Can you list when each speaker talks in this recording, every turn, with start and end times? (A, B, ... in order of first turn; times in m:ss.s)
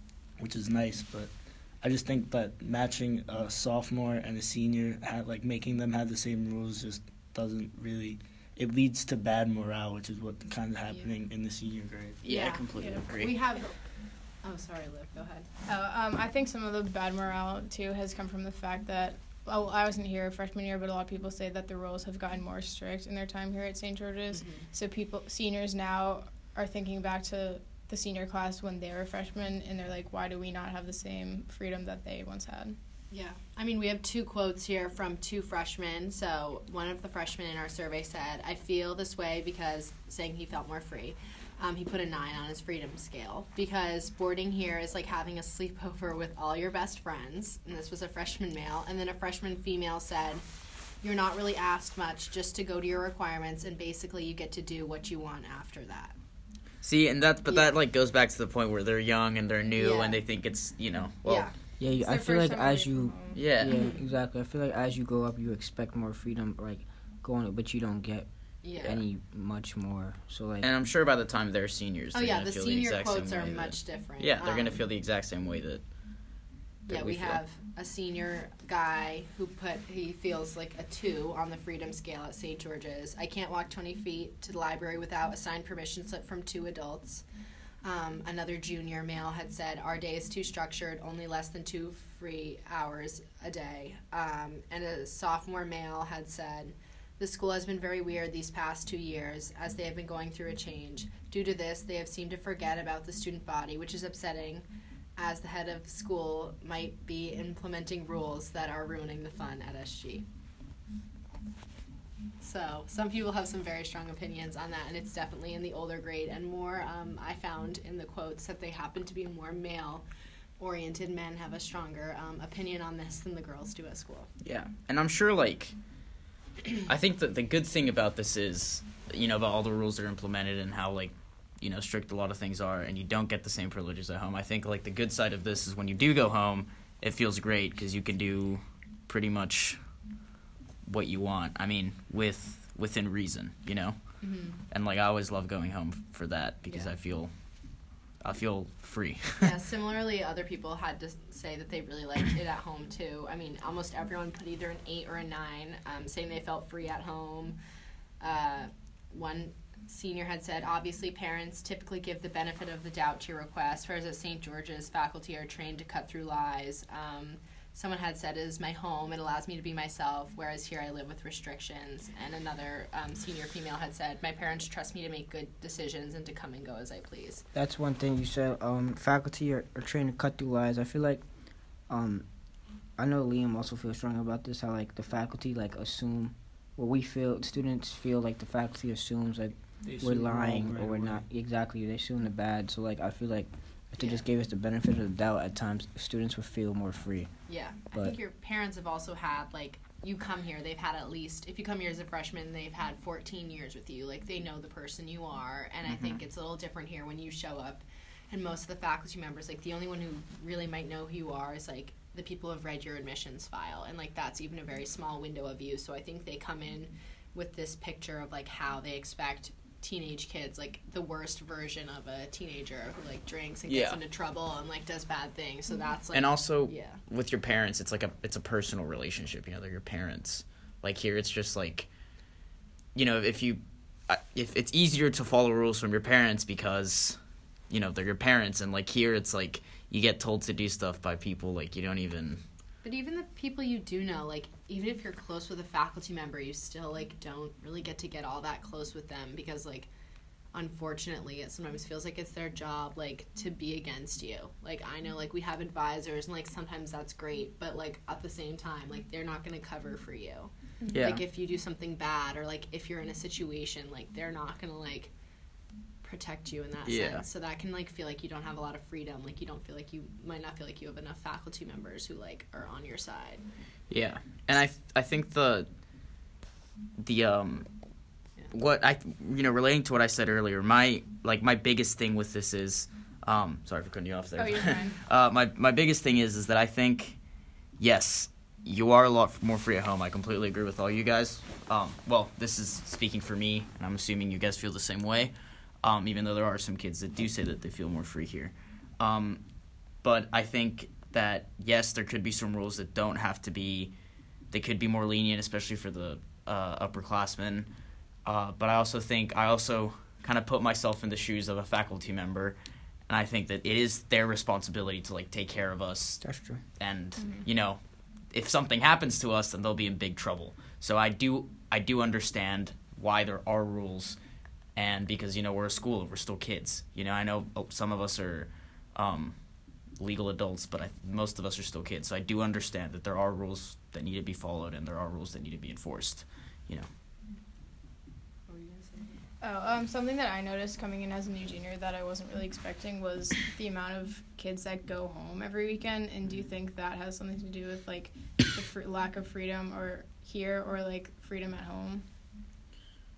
0:00.4-0:12.2 A
0:12.2-0:13.3 B
0:12.2-0:13.8 C
0:12.8-0:13.0 D
0:14.4-0:15.5 C
0:15.7-0:32.8 D
0:24.3-0:24.7 C
0:33.1-0:50.4 C
0:51.0-0:56.1 C
0:56.8-1:01.5 B
0:59.8-1:00.2 C
1:01.2-1:01.5 C
1:01.8-1:10.7 E
1:01.9-1:03.6 D
1:03.3-1:03.7 B
1:03.7-1:04.0 C
1:08.6-1:09.0 C
1:10.6-1:16.3 B
1:12.1-1:14.8 C
1:16.9-1:17.4 B
1:16.9-1:27.2 C
1:27.8-1:44.7 C
1:45.2-1:50.3 C
1:52.4-2:00.0 C
2:00.6-2:04.3 C
2:04.4-2:05.8 B
2:06.8-2:20.0 B
2:20.8-2:29.5 B
2:24.2-2:24.6 C
2:29.4-2:37.6 C
2:38.2-2:57.4 C
2:57.5-3:17.3 E
3:09.8-3:11.2 A
3:17.5-3:47.0 C
3:25.9-3:26.2 B
3:43.7-3:44.0 B
3:46.1-3:51.9 B
3:52.9-3:57.2 B
3:57.7-4:02.4 B
4:02.8-4:09.9 C
4:10.5-4:25.1 C
4:20.9-4:21.2 B
4:26.0-4:33.4 C
4:26.8-4:27.2 B
4:33.9-4:35.7 B
4:37.0-4:37.7 B
4:38.5-4:47.2 B
4:44.4-4:45.0 D
4:47.8-4:59.4 B
5:00.0-5:03.9 B
5:04.5-5:07.7 B
5:08.2-5:16.3 B
5:16.2-5:16.6 E
5:16.8-5:24.2 B
5:17.2-5:17.4 D
5:24.8-5:29.4 B
5:29.9-5:36.9 B
5:38.5-5:39.2 C
5:39.4-5:52.1 D